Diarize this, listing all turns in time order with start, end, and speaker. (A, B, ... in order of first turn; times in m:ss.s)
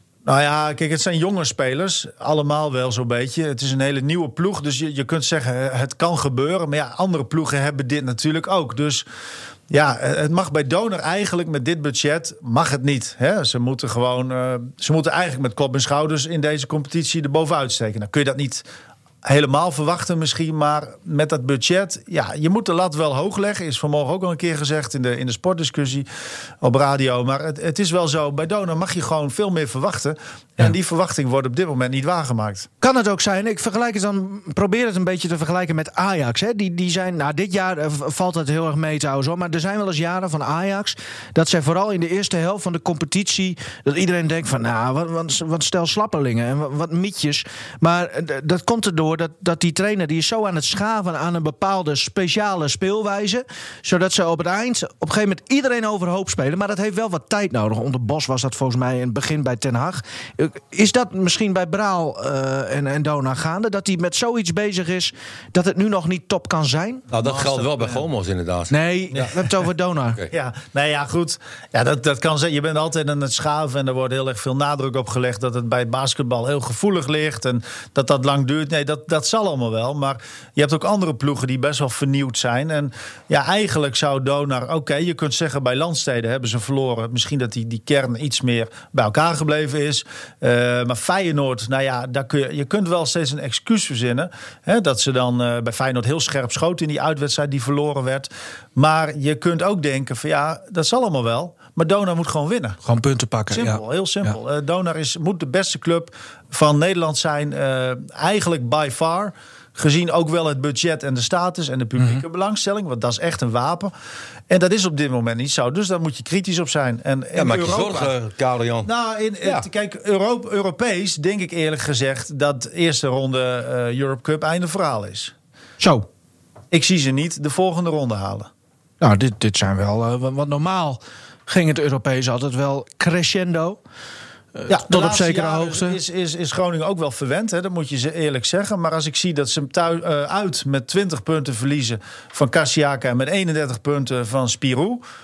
0:00.3-0:09.1 A
0:09.7-0:18.6 A
0:19.2-0:26.1 A
0:26.6-0:32.7 A
0:32.8-1:07.1 B
1:07.1-1:08.0 A
1:07.1-1:09.3 C
1:08.7-1:10.2 B
1:10.3-1:42.8 A
1:42.8-1:44.3 B
1:43.5-1:53.9 A
1:54.5-1:58.2 A
1:57.4-1:58.9 C
1:58.8-2:05.3 A
2:05.8-2:06.1 B
2:06.7-2:08.5 A
2:09.0-2:13.8 B
2:14.6-2:16.0 B
2:14.7-2:25.0 A